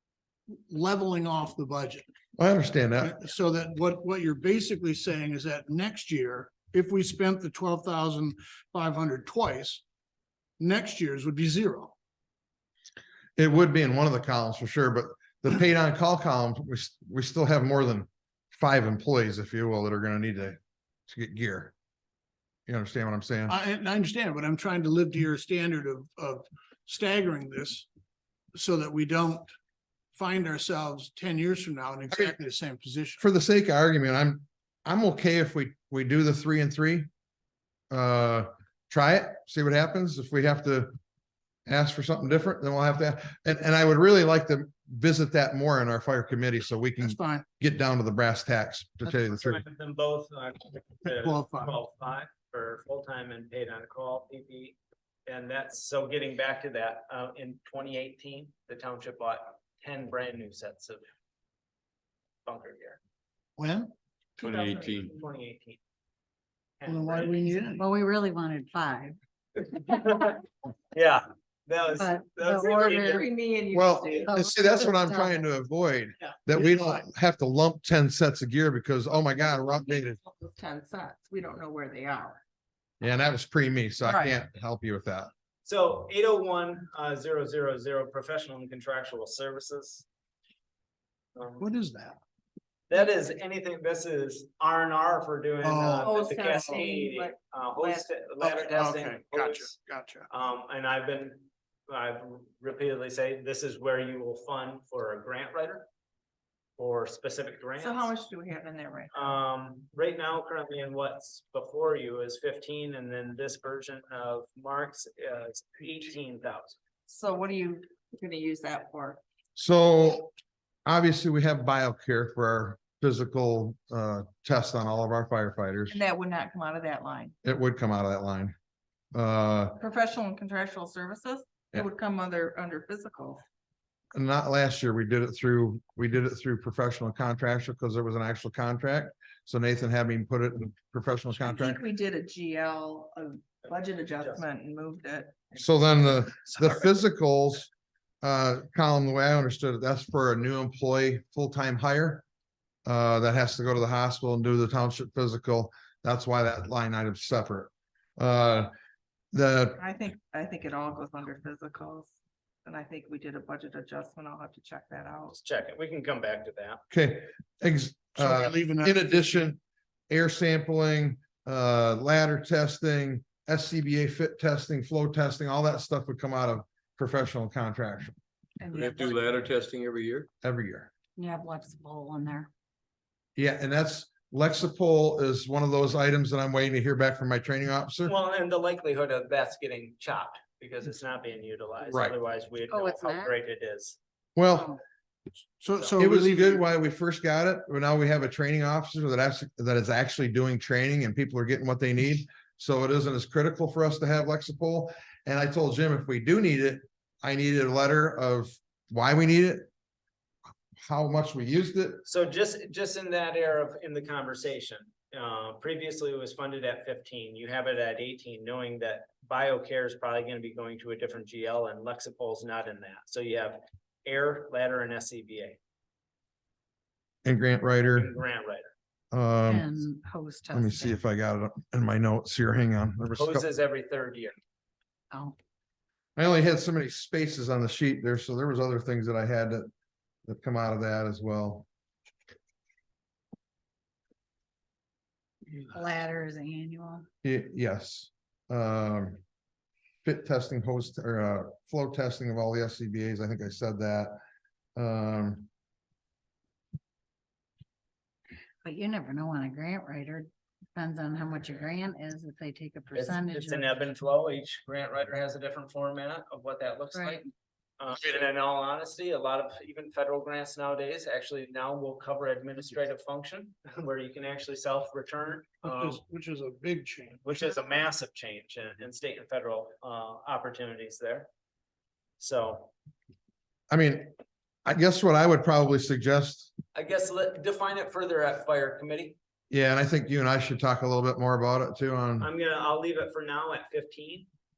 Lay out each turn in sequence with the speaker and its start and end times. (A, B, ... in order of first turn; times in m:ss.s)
0:00.5-0:02.1 A
0:02.4-0:03.2 B
0:03.0-0:09.8 A
0:10.6-0:12.0 A
0:13.4-0:21.7 B
0:22.7-0:23.6 B
0:23.5-0:27.9 A
0:28.5-0:29.5 A
0:30.1-0:33.2 A
0:33.2-0:37.1 B
0:37.9-0:41.0 B
0:41.7-0:49.6 B
0:47.0-0:47.5 A
0:49.1-1:01.0 C
0:51.1-0:51.7 A
1:02.5-1:03.0 C
1:03.6-1:03.9 A
1:04.4-1:05.3 D
1:04.4-1:05.1 E
1:05.1-1:05.8 C
1:06.8-1:07.7 C
1:06.9-1:07.9 A
1:07.8-1:09.2 F
1:09.7-1:10.4 C
1:10.9-1:13.3 C
1:12.0-1:13.2 F
1:12.4-1:14.4 D
1:13.7-1:20.2 B
1:14.3-1:15.4 F
1:19.8-1:22.4 D
1:23.0-1:25.3 B
1:25.6-1:30.0 C
1:31.4-1:31.6 C
1:31.6-1:32.2 A
1:32.9-1:39.7 C
1:35.6-1:36.6 A
1:36.0-1:38.1 D
1:38.4-1:40.3 A
1:40.3-1:45.9 C
1:46.8-1:48.1 C
1:47.8-1:49.4 D
1:49.1-1:56.8 C
1:57.1-1:59.2 D
1:59.6-2:00.3 B
2:00.9-2:06.0 B
2:05.9-2:07.3 D
2:07.4-2:08.6 B
2:09.1-2:09.8 B
2:09.8-2:13.4 D
2:14.1-2:21.8 B
2:21.4-2:26.9 D
2:23.8-2:24.4 C
2:25.6-2:27.7 B
2:28.2-2:32.2 B
2:32.9-2:38.7 B
2:39.3-2:39.8 B
2:39.8-2:45.4 D
2:45.3-2:46.8 C
2:46.9-2:49.6 B
2:48.2-2:49.3 A
2:50.1-2:58.2 B
2:58.6-2:59.5 D
2:58.7-3:00.3 E
3:00.4-3:00.9 B
3:01.2-3:02.5 F
3:03.4-3:08.1 B
3:08.0-3:14.0 C
3:11.9-3:12.2 B
3:12.7-3:13.3 F
3:14.4-3:14.7 B
3:14.5-3:14.8 F
3:15.6-3:16.6 A
3:15.7-3:16.0 C
3:16.0-3:29.7 B
3:30.8-3:32.0 B
3:32.0-3:45.6 C
3:47.2-3:48.1 B
3:48.0-3:48.7 C
3:49.1-3:49.8 B
3:49.5-3:51.0 F
3:50.5-3:53.4 B
3:53.2-3:54.4 C
3:55.1-3:55.4 F
3:56.2-3:59.7 B
4:00.3-4:01.7 B
4:05.5-4:07.1 F
4:07.2-4:09.2 B
4:10.0-4:14.2 B
4:14.8-4:15.5 B
4:18.6-4:23.7 F
4:23.0-4:36.0 C
4:26.9-4:27.2 F
4:35.6-4:37.2 A
4:37.2-4:41.3 C
4:42.2-4:42.7 C
4:43.7-4:44.1 B
4:44.6-4:46.5 B
4:46.7-4:49.2 C
4:49.5-4:52.3 B
4:52.2-4:54.3 C